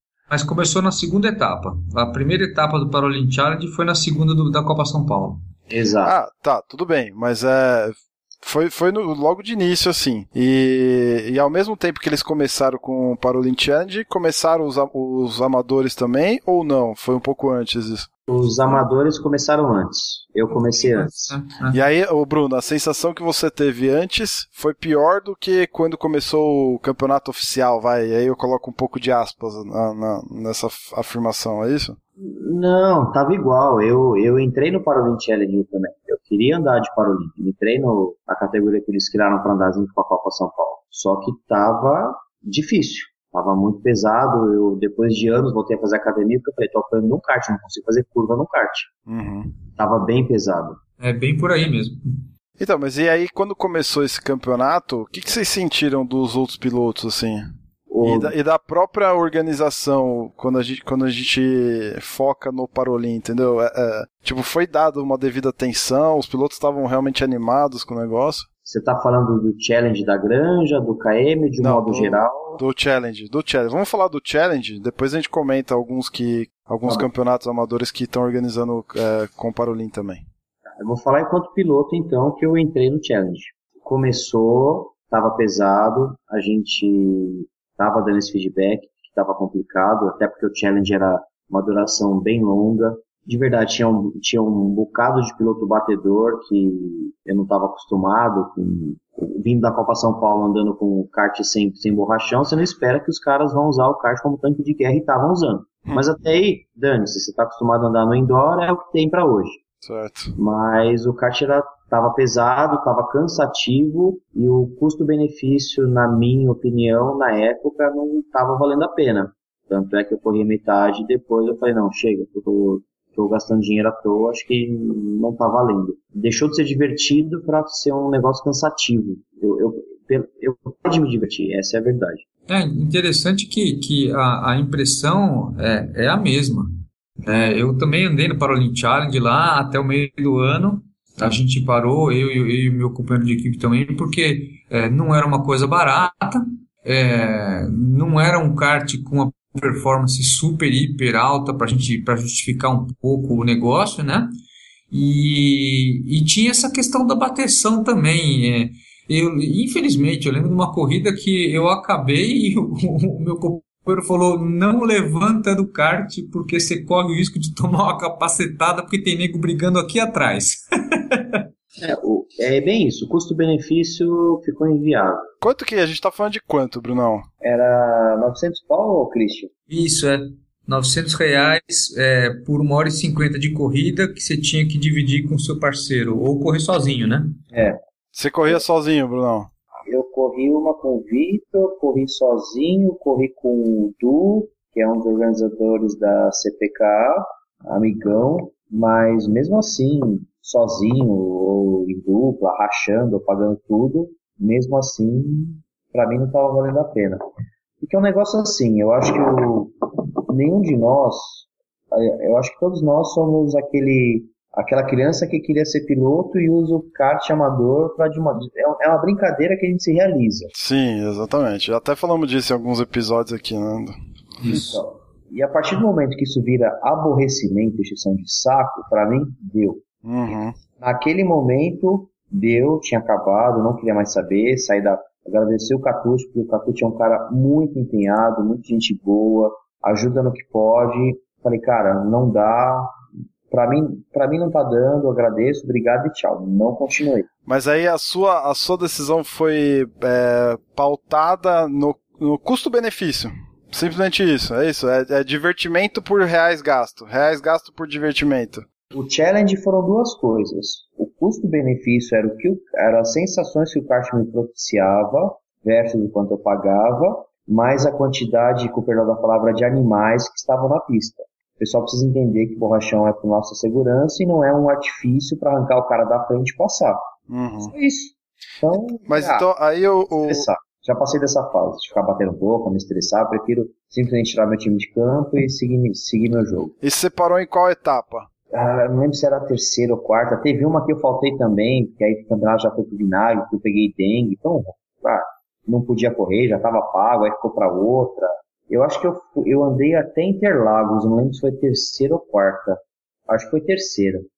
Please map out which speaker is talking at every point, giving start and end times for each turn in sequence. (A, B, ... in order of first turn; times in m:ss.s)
0:00.3-0:05.4 A
0:05.7-0:06.2 B
0:06.0-0:18.1 C
0:18.3-0:21.3 B
0:20.5-0:21.8 A
0:21.7-0:32.0 C
0:32.2-0:48.9 B
0:49.1-0:49.5 C
0:49.8-0:50.8 B
0:51.0-0:52.0 A
0:52.6-0:57.5 C
0:57.9-0:58.3 B
0:58.0-1:08.4 C
1:08.6-1:12.6 B
1:11.6-1:20.2 C
1:20.7-1:49.6 B
1:49.8-1:50.3 C
1:50.4-2:12.2 B
2:12.5-2:16.7 A
2:17.2-2:34.3 A
2:34.9-2:51.4 A
2:51.8-2:55.3 B
2:55.4-2:57.2 C
2:57.4-2:59.5 B
2:59.7-3:07.4 A
3:07.5-3:07.8 B
3:08.1-3:09.5 C
3:09.9-3:27.2 B
3:27.8-3:29.7 B
3:30.3-3:40.5 B
3:40.5-3:43.9 C
3:44.5-3:49.8 B
3:50.0-3:50.5 C
3:50.8-4:02.9 B
4:03.5-4:07.3 B
4:07.4-4:18.6 C
4:18.9-4:37.0 B
4:37.3-4:37.7 C
4:37.6-4:39.4 B
4:39.1-4:40.5 C
4:40.2-4:46.7 B
4:46.8-4:48.3 C
4:48.5-5:04.2 B